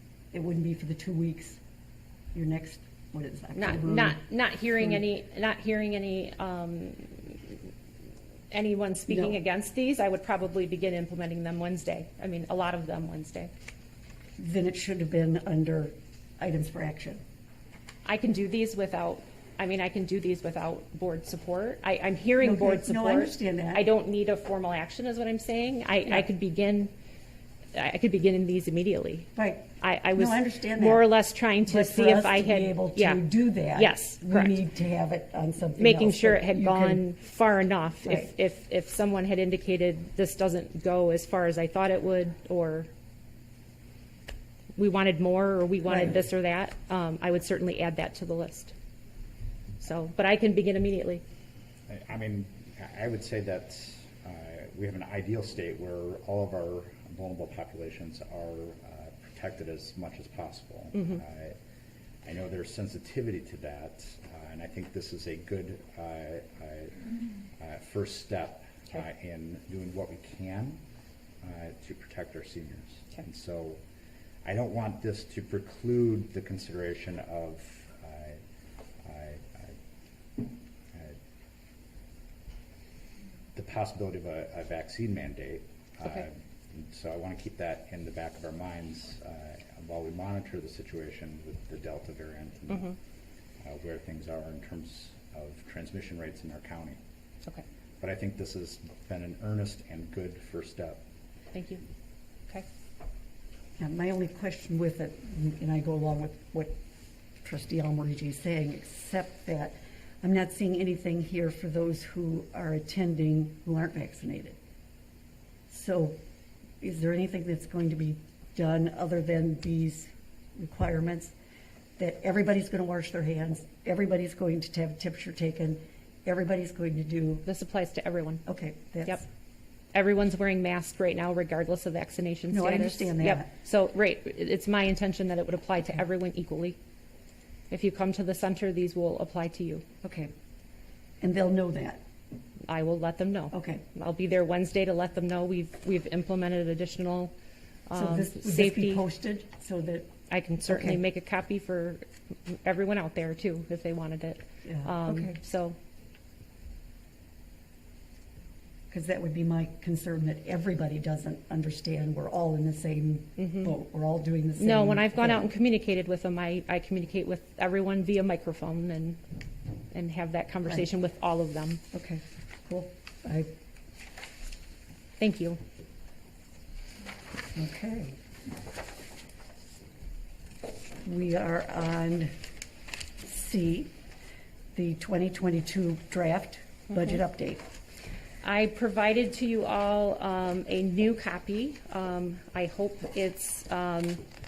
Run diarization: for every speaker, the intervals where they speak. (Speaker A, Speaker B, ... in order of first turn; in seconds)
Speaker A: 0.3-1.6, 2.3-4.2, 9.1-9.4, 14.4-17.2, 22.4-23.8, 29.4-31.1, 31.6-37.1, 38.0-38.3, 45.9-46.2, 103.8-106.7, 107.4-114.6, 115.7-116.2, 116.8-121.3, 122.0-127.5, 128.5-129.3, 132.5-133.5, 140.0-140.3, 141.2-142.0, 143.5-143.8, 147.9-150.1, 150.7-151.0, 154.6-155.4, 158.9-165.5, 171.9-173.5, 177.6-178.2, 181.0-182.3, 183.2-183.9, 184.7-187.6
Speaker B: 3.6-7.6, 8.5-13.5, 18.1-26.9, 27.8-33.2, 33.7-34.6, 35.8-42.9, 44.8-48.7, 49.8-51.2, 60.9-61.2, 101.5-101.8, 127.5-128.4, 129.9-136.8, 137.7-139.8, 142.7-147.3, 147.9-149.0, 150.3-155.8, 163.4-163.7, 164.6-169.2, 169.9-171.8, 175.2-175.6, 188.4-194.2
Speaker C: 51.9-61.6, 62.2-67.1, 67.6-70.8, 71.4-73.8, 74.4-78.4, 79.0-79.8, 83.5-92.9, 93.6-97.0, 98.0-101.0